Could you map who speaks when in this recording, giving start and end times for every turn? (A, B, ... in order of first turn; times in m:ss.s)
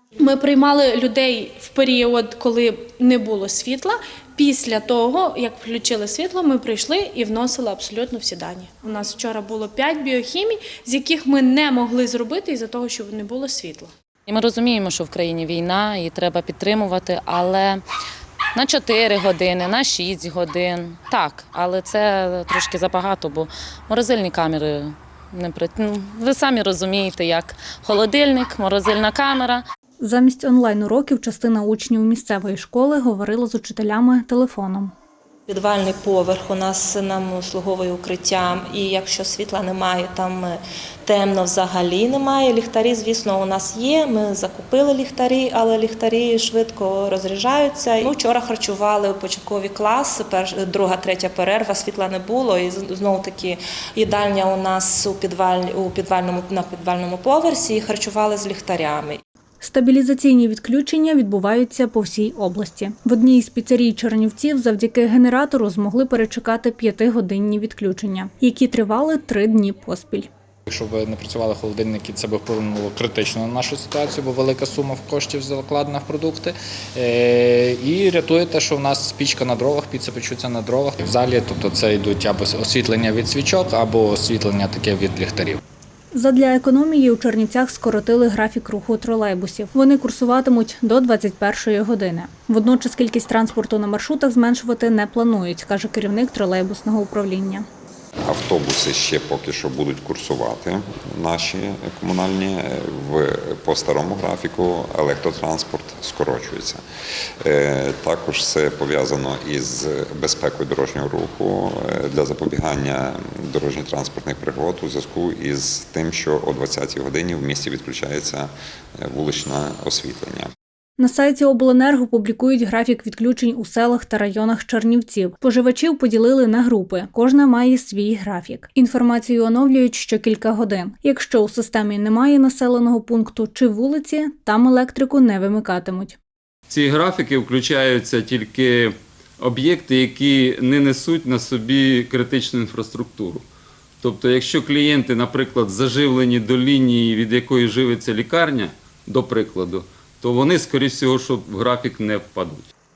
0:00.2-0:13.9 A
0:14.3-0:17.8 B
0:18.6-0:29.6 B
0:30.0-0:34.9 C
0:35.5-0:59.2 D
0:59.6-1:10.3 C
1:10.7-1:25.6 E
1:26.1-1:37.7 C
1:38.2-1:46.8 F
1:47.4-2:00.5 F
2:01.0-2:16.2 C
2:16.7-2:23.4 G
2:24.0-2:32.7 G